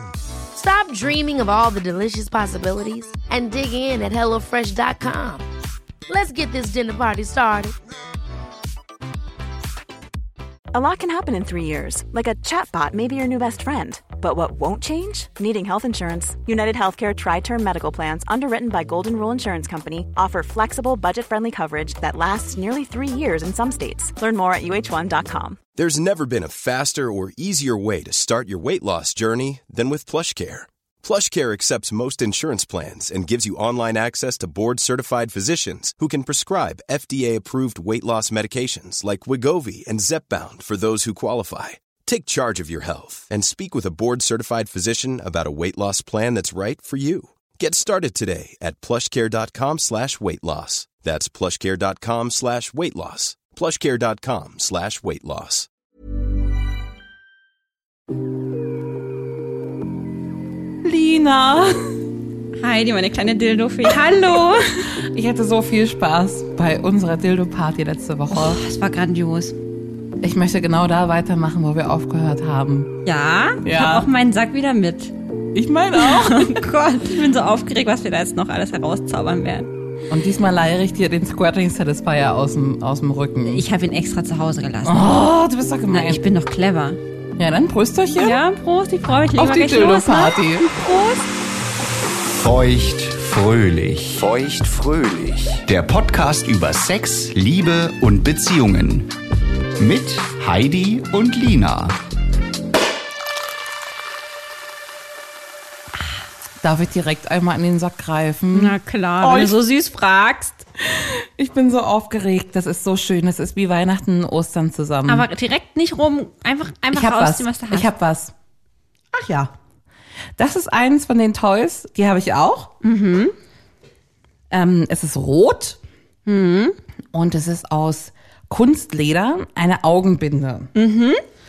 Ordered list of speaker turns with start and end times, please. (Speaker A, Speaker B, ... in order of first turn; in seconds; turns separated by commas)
Speaker A: 0.5-5.5, Speaker A: 6.1-7.8, Speaker B: 10.7-25.6, Speaker C: 25.8-55.7, Speaker D: 60.8-62.0, Speaker E: 62.6-64.9, Speaker D: 64.9-68.6, Speaker E: 68.3-69.6, Speaker D: 70.2-73.0, Speaker E: 73.0-75.1, Speaker D: 73.6-74.1, Speaker D: 75.5-76.6, Speaker E: 76.0-79.7, Speaker D: 80.1-83.7, Speaker E: 83.5-85.1, Speaker D: 84.8-86.2, Speaker E: 85.9-87.0, Speaker D: 87.4-88.4, Speaker E: 88.2-91.3, Speaker D: 89.4-90.7, Speaker F: 92.4-99.1, Speaker F: 99.8-102.0, Speaker D: 106.6-109.6, Speaker E: 108.5-110.6, Speaker D: 110.8-115.3, Speaker E: 115.1-117.9, Speaker D: 116.9-118.3, Speaker D: 119.1-119.5, Speaker D: 120.4-122.7, Speaker E: 122.8-123.3, Speaker D: 124.5-125.8, Speaker E: 126.3-126.8, Speaker D: 127.1-130.7, Speaker E: 130.7-131.2